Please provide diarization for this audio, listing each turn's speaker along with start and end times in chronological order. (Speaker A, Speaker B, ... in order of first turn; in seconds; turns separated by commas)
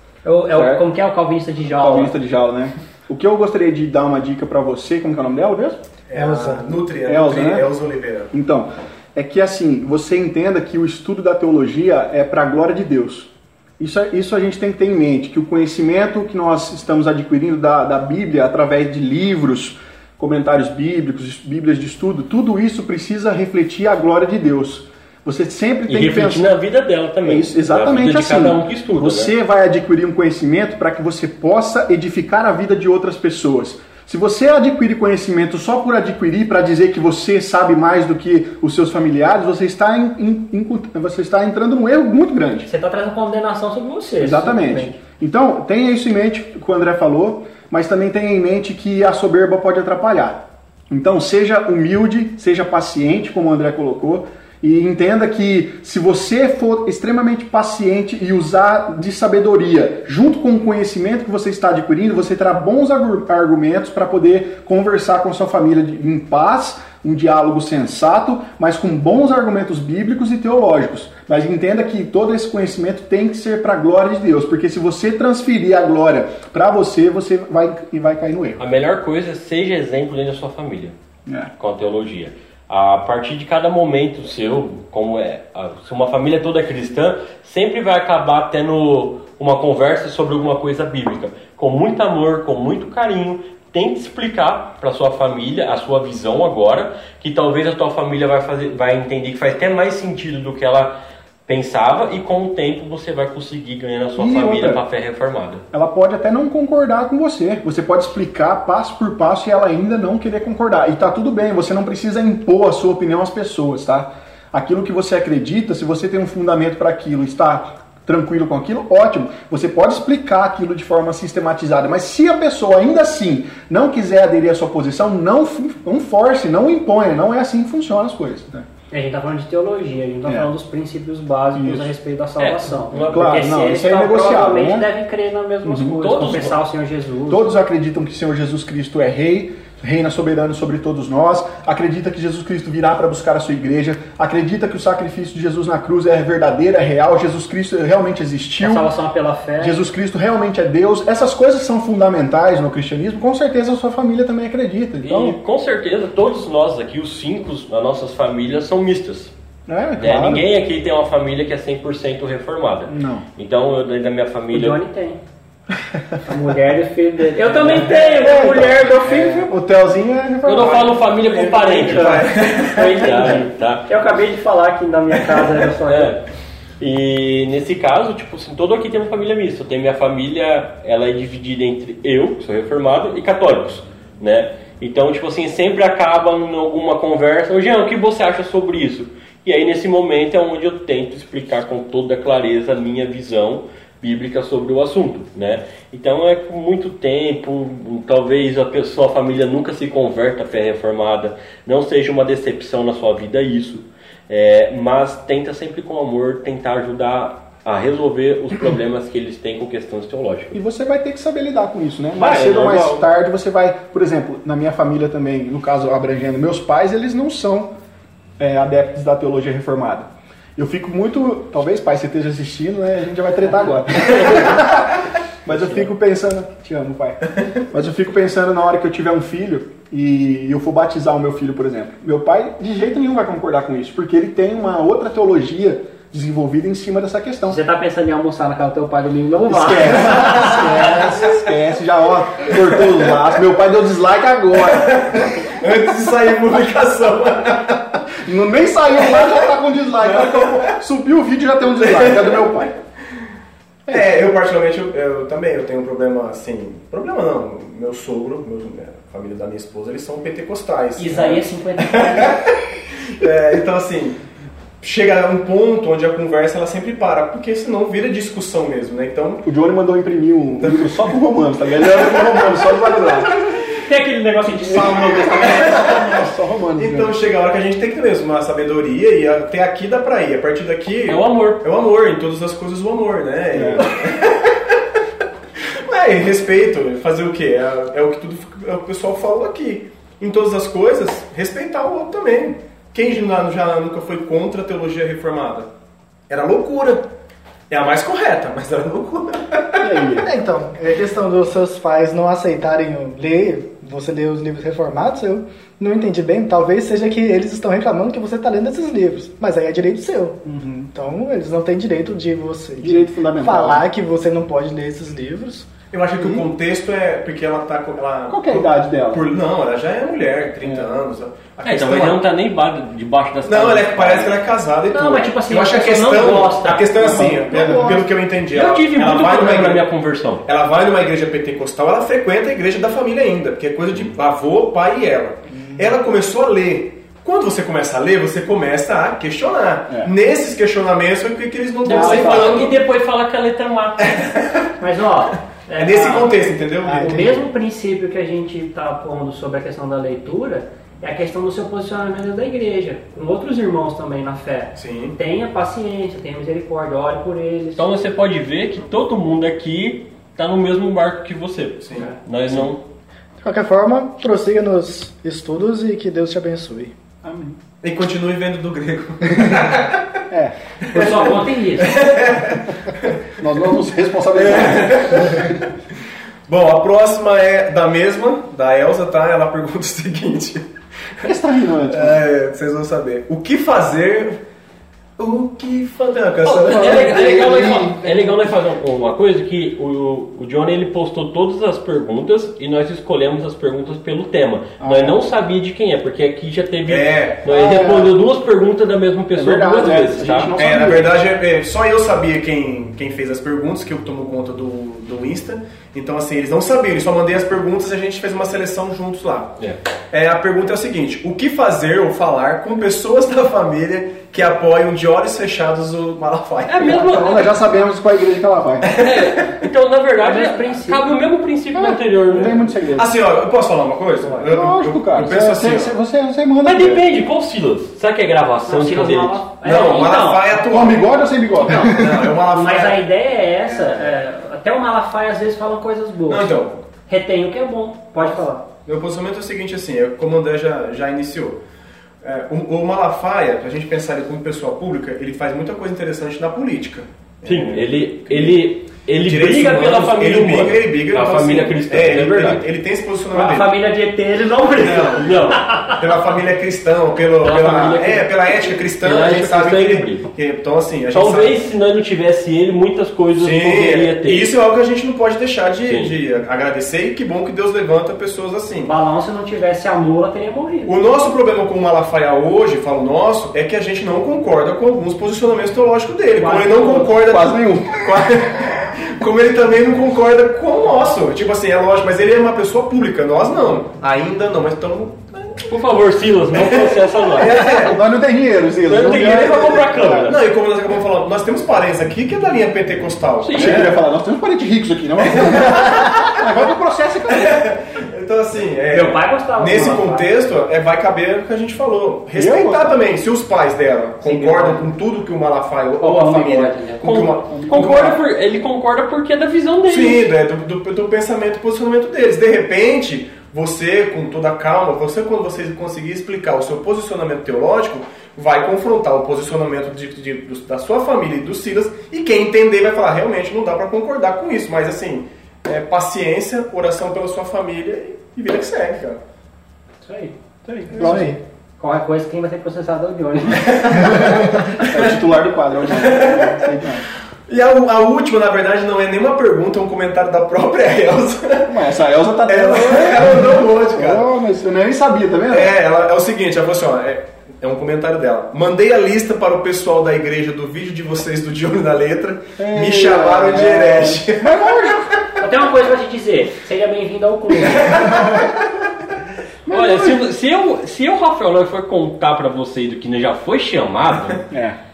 Speaker A: 0.2-2.1, Speaker B: 0.5-0.9, Speaker B: 1.7-5.8, Speaker C: 6.1-8.3, Speaker D: 6.1-6.7, Speaker B: 7.0-7.7, Speaker B: 8.3-26.5, Speaker E: 25.9-29.3, Speaker B: 27.2-42.7, Speaker A: 42.7-45.0, Speaker B: 44.2-78.6, Speaker E: 78.6-80.9, Speaker B: 81.2-81.5, Speaker E: 81.6-105.6, Speaker B: 104.2-104.8, Speaker B: 105.7-128.7, Speaker A: 128.9-137.5, Speaker B: 130.2-130.5, Speaker B: 131.5-131.9, Speaker E: 132.4-133.4, Speaker B: 133.1-134.9, Speaker B: 135.6-136.4, Speaker E: 136.0-136.6, Speaker B: 137.3-148.9, Speaker A: 148.6-149.8, Speaker B: 149.6-155.4, Speaker E: 155.0-159.3, Speaker B: 159.7-160.5, Speaker E: 160.0-164.8, Speaker B: 162.9-163.2, Speaker A: 164.5-165.2, Speaker A: 166.2-169.5, Speaker B: 167.7-171.0, Speaker E: 170.4-173.9, Speaker C: 170.6-173.1, Speaker A: 171.8-176.1, Speaker E: 175.8-176.2, Speaker E: 176.8-210.5, Speaker B: 210.5-217.7, Speaker E: 212.2-213.0, Speaker B: 218.4-237.6, Speaker A: 237.5-241.0, Speaker B: 239.5-245.2, Speaker C: 244.7-248.0, Speaker B: 248.1-252.7, Speaker C: 250.0-250.7, Speaker C: 251.8-252.7, Speaker C: 253.9-264.2, Speaker A: 261.0-262.4, Speaker C: 264.8-269.4, Speaker B: 269.4-273.4, Speaker C: 270.6-271.0, Speaker A: 273.7-275.6, Speaker C: 274.7-276.1, Speaker B: 275.1-277.2, Speaker C: 276.8-284.8, Speaker E: 281.1-281.6, Speaker B: 283.5-283.9, Speaker C: 285.8-295.7, Speaker C: 296.3-297.1, Speaker C: 297.7-300.0, Speaker B: 299.8-300.3, Speaker D: 300.1-315.7, Speaker B: 310.4-310.9, Speaker B: 312.8-313.9, Speaker C: 315.9-322.2, Speaker B: 316.2-316.5, Speaker B: 318.3-319.3, Speaker E: 321.6-324.4, Speaker C: 323.4-329.9, Speaker A: 324.9-327.1, Speaker B: 327.0-328.1, Speaker E: 328.5-330.4, Speaker C: 330.4-342.8, Speaker E: 341.8-344.3, Speaker B: 341.9-342.7, Speaker C: 344.0-344.7, Speaker A: 344.8-357.9, Speaker C: 345.8-347.3, Speaker B: 346.8-347.3, Speaker C: 354.8-355.2, Speaker E: 357.8-362.8, Speaker C: 361.8-362.7, Speaker D: 363.4-366.9, Speaker B: 367.2-367.6, Speaker C: 367.8-370.2, Speaker B: 370.3-371.4, Speaker C: 370.9-373.2, Speaker A: 370.9-371.9, Speaker B: 373.4-375.6, Speaker C: 374.3-375.6, Speaker C: 376.5-380.6, Speaker B: 381.2-382.2, Speaker C: 381.9-384.4, Speaker C: 385.2-387.9, Speaker E: 386.4-400.5, Speaker B: 386.6-388.1, Speaker B: 394.8-395.2, Speaker C: 396.9-397.8, Speaker B: 397.5-398.1, Speaker B: 399.3-401.2, Speaker C: 400.6-409.5, Speaker C: 410.1-417.4, Speaker E: 416.7-417.5, Speaker B: 416.9-419.0, Speaker C: 418.8-419.6, Speaker E: 418.9-422.6, Speaker A: 420.2-421.1, Speaker B: 421.7-423.1, Speaker C: 422.3-425.9, Speaker B: 424.4-427.0, Speaker E: 426.6-430.3, Speaker A: 428.6-430.5, Speaker C: 429.6-431.1, Speaker B: 430.5-432.3, Speaker A: 431.6-438.6, Speaker C: 431.8-433.0, Speaker C: 433.7-434.1, Speaker C: 436.3-436.8, Speaker C: 438.9-441.6, Speaker C: 442.2-448.7, Speaker E: 447.4-452.7, Speaker C: 449.2-453.7, Speaker A: 453.3-456.0, Speaker C: 454.8-461.6, Speaker E: 455.1-455.7, Speaker E: 457.4-460.3, Speaker E: 461.1-464.5, Speaker C: 463.4-468.9, Speaker E: 465.8-466.1, Speaker A: 468.9-471.0, Speaker C: 470.9-485.6, Speaker A: 476.4-477.2, Speaker B: 477.2-478.4, Speaker E: 485.7-488.0, Speaker C: 486.5-488.0, Speaker B: 487.5-490.3, Speaker E: 488.9-490.4, Speaker C: 490.2-493.9, Speaker E: 493.4-493.9, Speaker B: 493.5-497.6, Speaker C: 495.3-496.4, Speaker C: 497.3-508.2, Speaker A: 498.9-500.3, Speaker B: 502.3-503.0, Speaker A: 504.2-504.9, Speaker A: 506.0-507.2, Speaker E: 507.0-510.3, Speaker B: 507.5-508.1, Speaker C: 509.9-529.2, Speaker A: 530.0-531.0, Speaker C: 530.9-531.3, Speaker D: 530.9-531.4, Speaker B: 531.0-531.3, Speaker A: 531.8-533.9, Speaker C: 533.5-535.2, Speaker B: 534.0-537.1, Speaker C: 535.8-536.7, Speaker C: 537.5-541.8, Speaker B: 541.6-545.7, Speaker C: 542.5-544.2, Speaker C: 545.5-554.5, Speaker B: 552.6-555.2, Speaker A: 555.4-558.2, Speaker C: 557.6-558.5, Speaker B: 559.6-560.3, Speaker E: 559.7-564.5, Speaker B: 564.5-564.8